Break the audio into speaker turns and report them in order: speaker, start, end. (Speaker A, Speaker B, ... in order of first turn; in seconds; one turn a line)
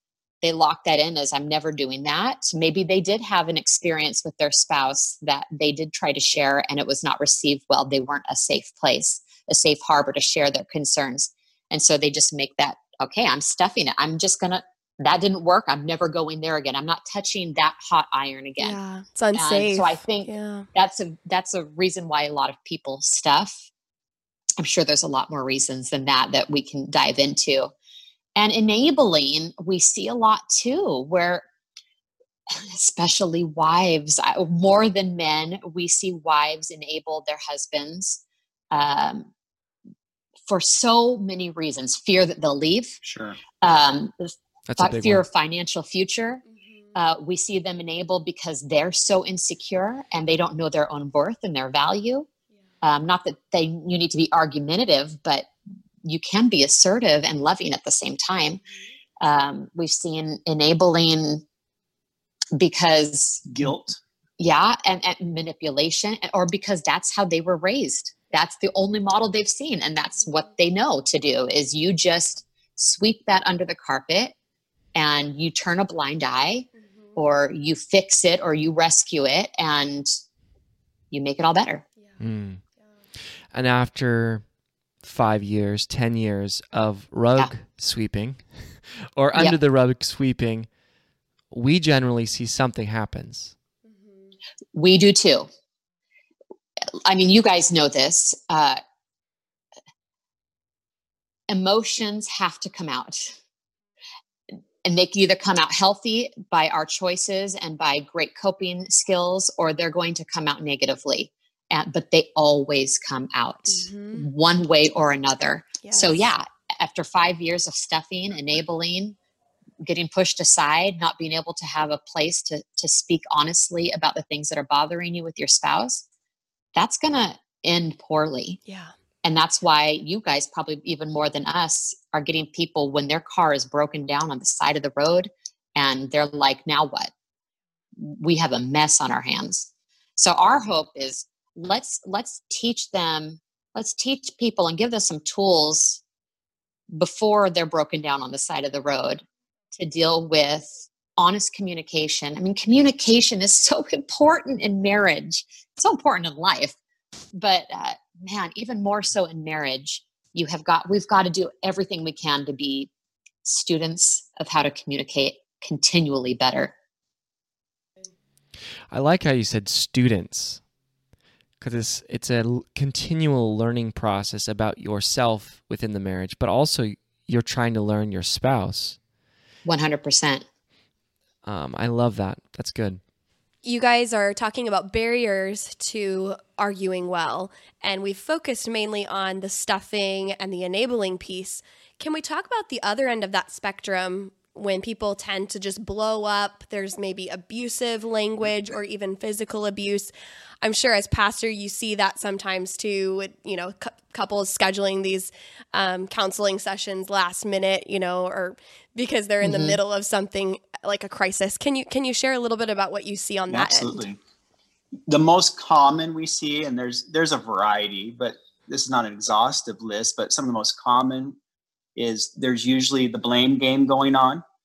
Speaker A: 0.4-18.8
Speaker B: 18.6-20.7
Speaker A: 19.4-23.7
Speaker A: 24.6-27.7
Speaker A: 28.4-31.5
Speaker A: 32.5-38.2
Speaker A: 38.7-39.3
Speaker A: 40.5-43.0
Speaker C: 43.0-43.4
Speaker A: 43.6-46.4
Speaker D: 44.7-45.2
Speaker A: 46.9-52.3
Speaker A: 52.8-55.5
Speaker A: 56.0-58.6
Speaker A: 59.2-61.4
Speaker A: 62.6-63.4
Speaker C: 63.5-64.0
Speaker A: 64.4-74.3
Speaker A: 75.0-80.1
Speaker A: 81.1-81.8
Speaker D: 82.2-82.6
Speaker D: 83.5-84.5
Speaker D: 85.0-90.7
Speaker D: 91.5-93.5
Speaker A: 94.7-95.5
Speaker A: 97.0-98.8
Speaker A: 101.5-103.4
Speaker A: 104.8-119.2
Speaker B: 113.7-114.3
Speaker B: 115.8-116.3
Speaker A: 119.8-126.0
Speaker A: 126.8-128.6
Speaker B: 128.7-128.9
Speaker A: 129.2-137.1
Speaker A: 138.0-146.0
Speaker A: 146.9-149.2
Speaker A: 149.8-156.8
Speaker A: 157.3-162.9
Speaker A: 163.4-166.7
Speaker D: 168.9-170.7
Speaker D: 171.6-179.0
Speaker A: 179.7-180.4
Speaker D: 181.4-183.0
Speaker B: 183.6-214.0
Speaker A: 209.4-209.8
Speaker C: 213.5-214.2
Speaker C: 215.1-221.4
Speaker C: 222.0-224.4